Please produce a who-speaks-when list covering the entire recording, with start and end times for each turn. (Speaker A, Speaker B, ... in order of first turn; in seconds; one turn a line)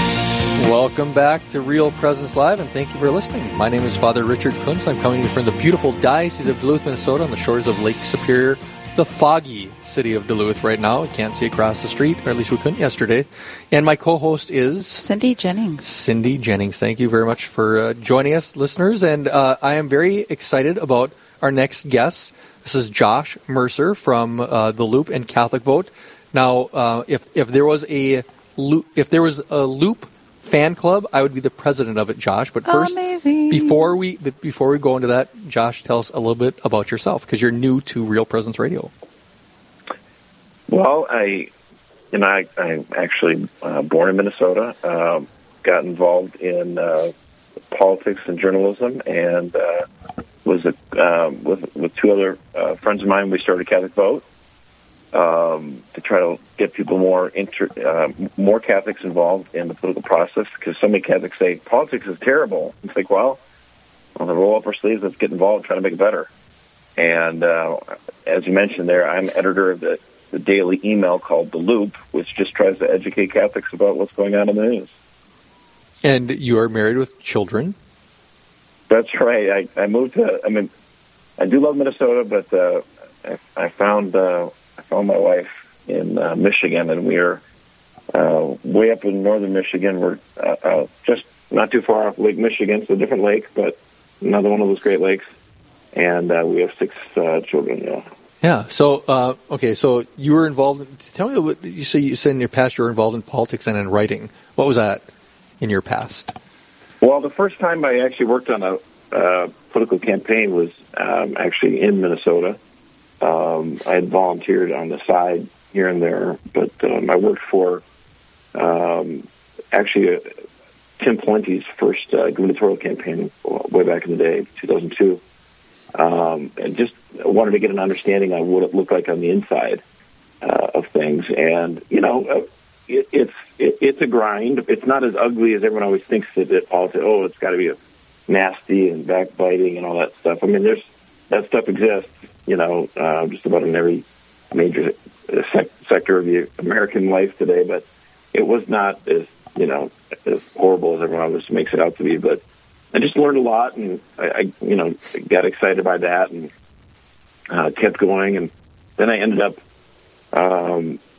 Speaker A: 0.6-15.0
Speaker B: 15.0-15.8
Speaker A: 15.8-38.9
Speaker B: 32.6-33.9
Speaker C: 40.7-41.5
Speaker C: 42.1-47.1
Speaker C: 47.7-49.9
Speaker C: 50.4-54.2
Speaker C: 55.1-63.4
Speaker C: 64.2-66.3
Speaker C: 67.0-74.9
Speaker A: 76.0-77.8
Speaker C: 78.9-80.7
Speaker C: 81.4-87.4
Speaker C: 88.1-95.2
Speaker C: 95.9-98.0
Speaker A: 98.4-105.0
Speaker A: 105.6-106.3
Speaker C: 107.0-112.6
Speaker C: 113.2-117.8
Speaker C: 118.5-120.3
Speaker C: 121.0-125.2
Speaker C: 125.9-129.8
Speaker C: 130.4-137.8
Speaker C: 138.3-152.4
Speaker C: 152.9-156.5
Speaker C: 157.5-159.6
Speaker C: 160.3-161.0